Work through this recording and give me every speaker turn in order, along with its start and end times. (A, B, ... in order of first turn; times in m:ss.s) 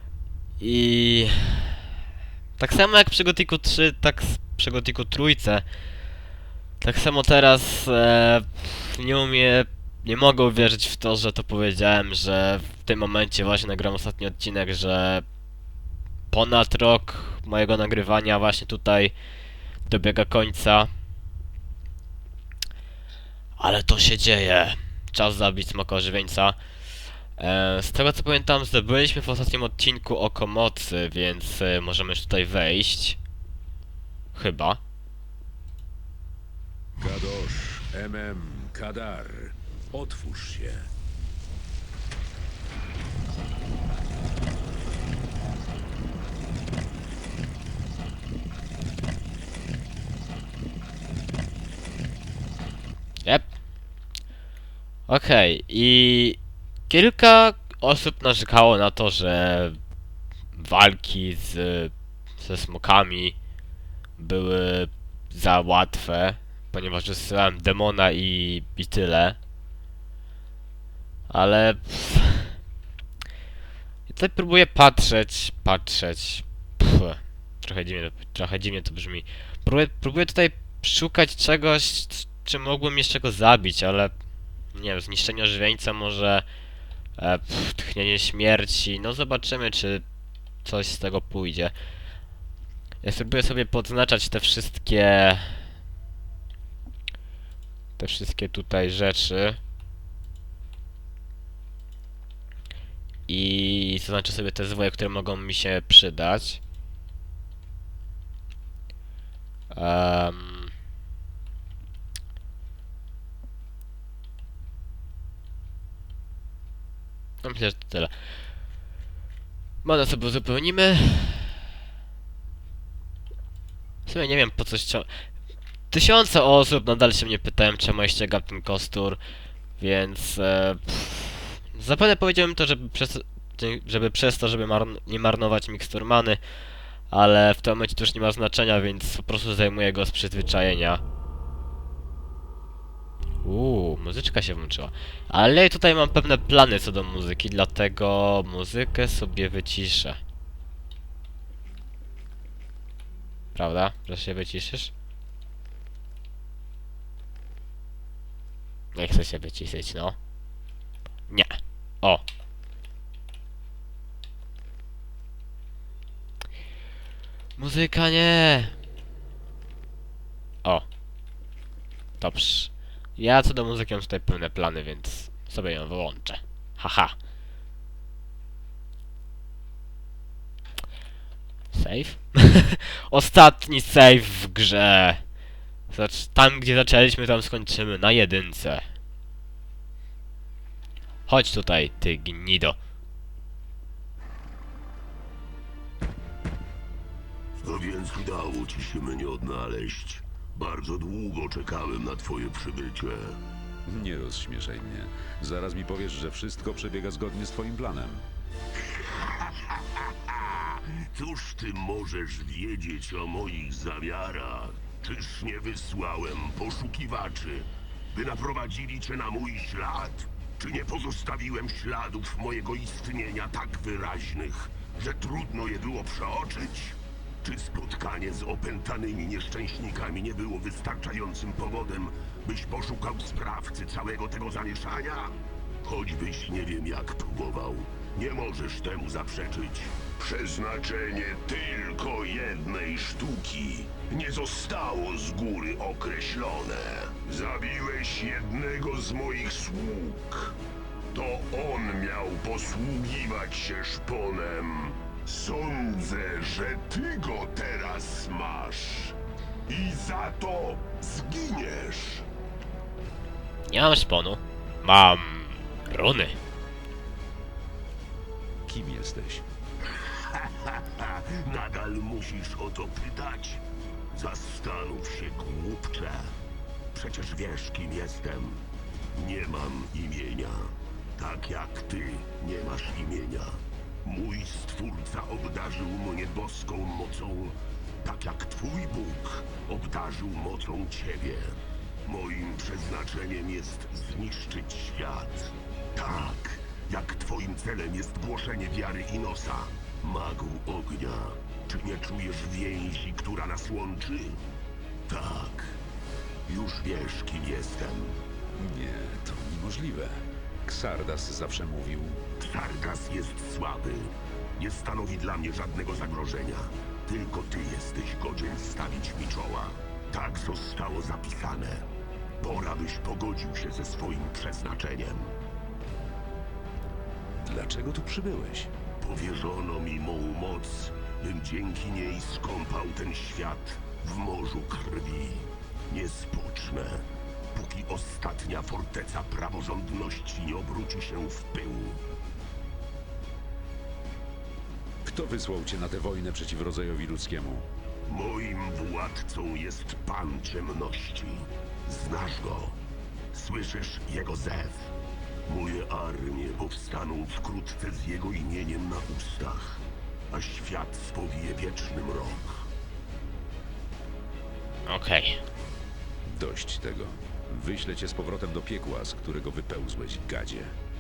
0:00.6-0:01.8 A
0:02.6-0:05.6 A
0:06.8-0:15.2 A
0:16.3-0:19.1 A
0:19.9-0:20.9 A
0:23.6-0:26.6 A
0:27.4-0:33.2 A
0:34.3-0:34.8 A
0:37.0-0:40.9 B
0:53.2-0:53.5 A
0:55.1-0:59.8 A
1:00.5-1:03.4 A
1:04.2-1:09.4 A
1:11.3-1:12.5 A
1:14.1-1:24.1 A
1:24.7-1:26.4 A
1:27.2-1:30.0 A
1:30.6-1:31.7 A
1:33.0-1:35.7 A
1:38.0-1:39.6 A
1:43.3-1:46.6 A
1:49.7-1:50.7 A
1:57.4-1:58.1 A
1:59.8-2:01.6 A
2:04.1-2:05.1 A
2:05.9-2:09.2 A
2:09.8-2:16.4 A
2:17.1-2:21.0 A
2:23.4-2:30.2 A
2:33.6-2:34.9 A
2:39.0-2:40.2 A
2:41.3-2:42.2 A
2:47.6-2:48.7 A
2:52.2-2:57.1 A
3:01.7-3:05.3 A
3:05.9-3:08.8 A
3:11.3-3:12.8 A
3:17.6-3:23.4 C
3:23.9-3:28.3 B
3:28.9-4:10.6 C
4:11.1-4:22.3 C
4:23.7-4:26.4 A
4:28.7-4:29.5 B
4:30.0-4:36.4 C
4:36.9-4:38.6 C
4:39.2-5:04.4 C
5:05.1-5:05.8 C
5:06.5-5:08.2 C
5:08.6-5:12.2 B
5:12.4-5:21.9 C
5:22.4-5:25.4 C
5:27.4-5:28.7 B
5:29.0-5:42.0 C
5:45.0-5:47.7 B
5:48.1-5:52.8 C
5:53.3-5:54.9 C
5:55.5-6:02.7 C
6:04.9-6:05.4 A
6:06.3-6:10.8 B